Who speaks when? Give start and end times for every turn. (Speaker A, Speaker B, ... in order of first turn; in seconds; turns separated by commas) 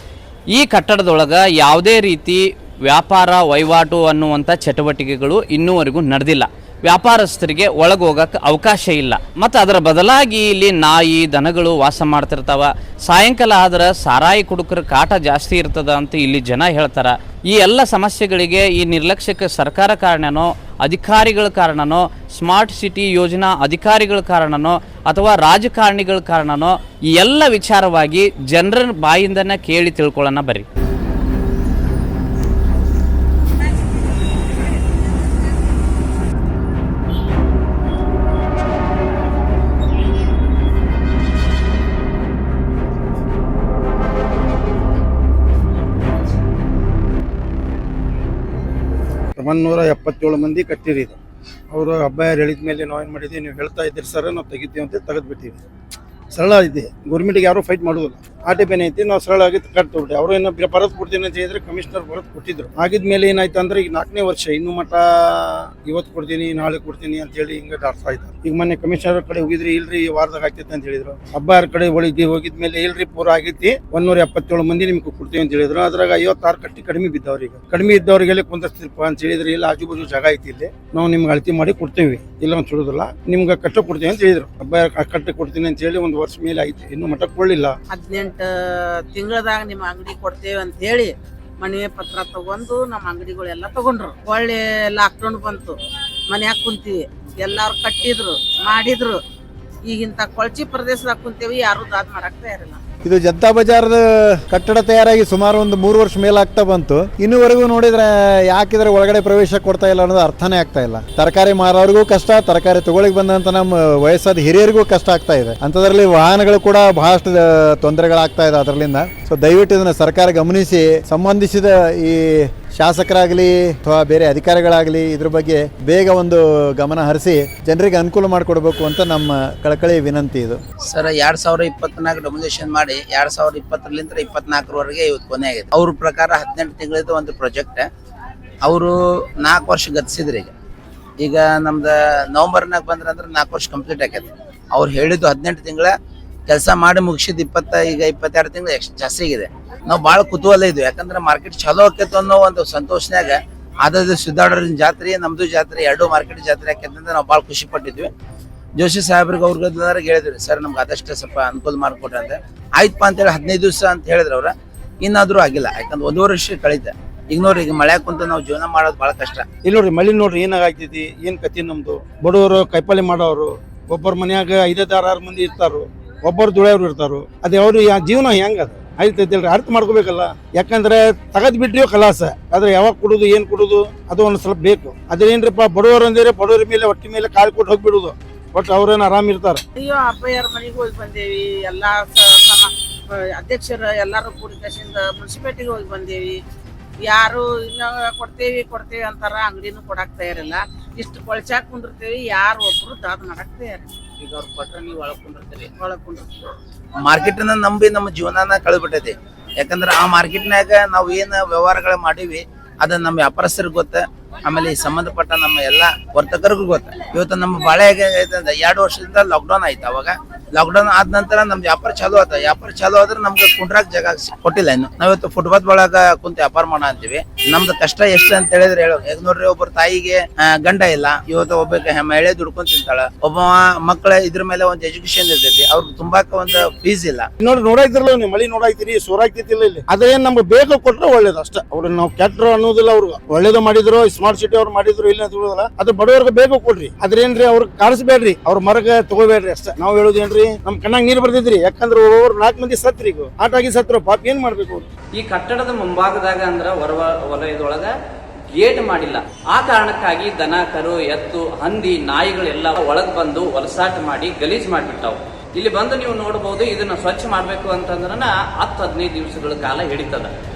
Speaker A: 0.5-30.7, Speaker B: 49.4-51.2, Speaker B: 51.7-55.6, Speaker B: 56.3-87.8, Speaker C: 87.9-88.5, Speaker C: 89.0-95.8, Speaker C: 96.3-99.2, Speaker C: 99.9-102.8, Speaker D: 103.0-130.6, Speaker E: 130.9-137.9, Speaker E: 138.6-140.5, Speaker E: 141.2-145.9, Speaker E: 146.5-158.1, Speaker E: 158.8-169.4, Speaker B: 169.6-189.6, Speaker C: 189.8-196.4, Speaker C: 197.0-204.0, Speaker E: 204.2-205.7, Speaker C: 205.8-206.3, Speaker E: 207.0-237.3, Speaker B: 237.4-254.9, Speaker A: 255.1-257.9, Speaker A: 258.5-270.3